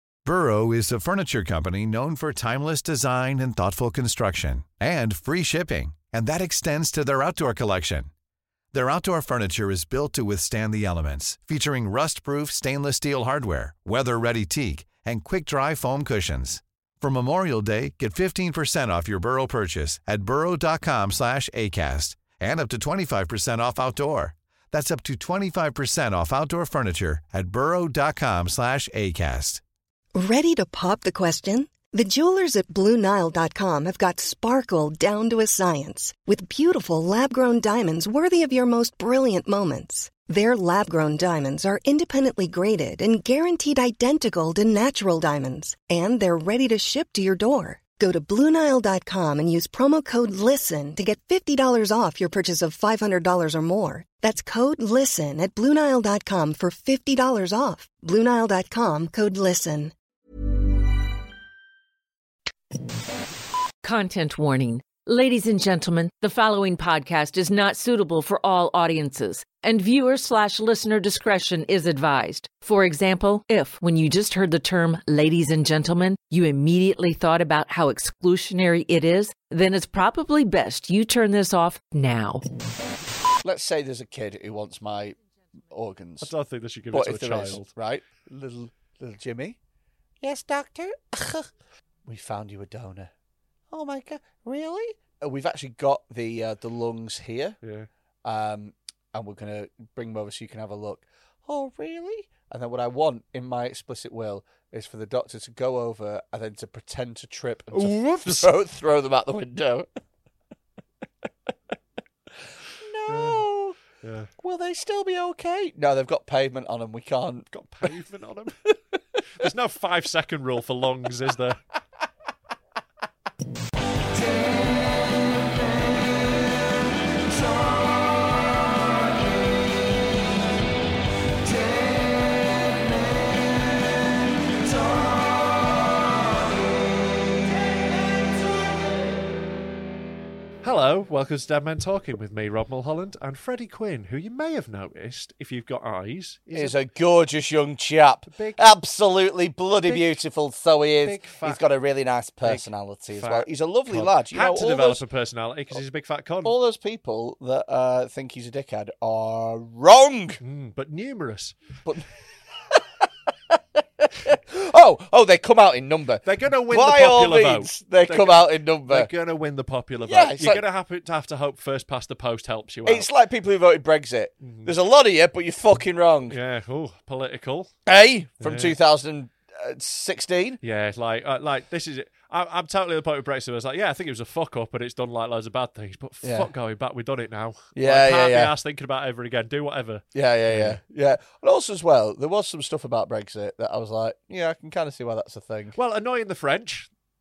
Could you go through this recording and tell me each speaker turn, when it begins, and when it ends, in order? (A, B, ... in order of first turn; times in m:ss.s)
0:00.2-0:08.1 A
0:08.7-0:29.6 A
0:30.1-0:59.9 B
1:03.8-1:22.4 C
1:23.4-1:25.2 D
1:25.7-1:26.3 D
1:26.2-1:27.7 E
1:26.9-1:29.6 D
1:30.2-1:31.5 D
1:32.0-1:33.1 D
1:33.7-1:37.6 D
1:37.6-1:37.9 E
1:38.2-1:49.9 D
1:47.7-1:48.5 E
1:52.8-1:53.8 D
1:53.1-1:53.4 E
1:54.0-1:54.3 E
1:54.4-1:57.4 D
1:57.5-1:58.6 E
1:59.3-2:01.6 E
2:20.6-2:26.8 E
2:26.5-2:35.0 D
2:28.3-2:28.7 E
2:31.0-2:31.6 E
2:32.4-2:36.5 E
2:36.4-2:40.4 D
2:40.4-2:41.6 E
2:43.5-2:49.1 D
2:46.2-2:53.1 E
2:50.0-2:50.6 D
2:52.8-2:56.4 D
2:54.4-2:54.7 E
2:56.3-2:57.7 E
2:57.8-3:00.6 D
2:58.4-2:58.8 E
3:00.6-3:10.8 E
3:06.2-3:06.5 D
3:07.8-3:08.5 D
3:10.1-3:15.8 D
3:15.8-3:16.9 E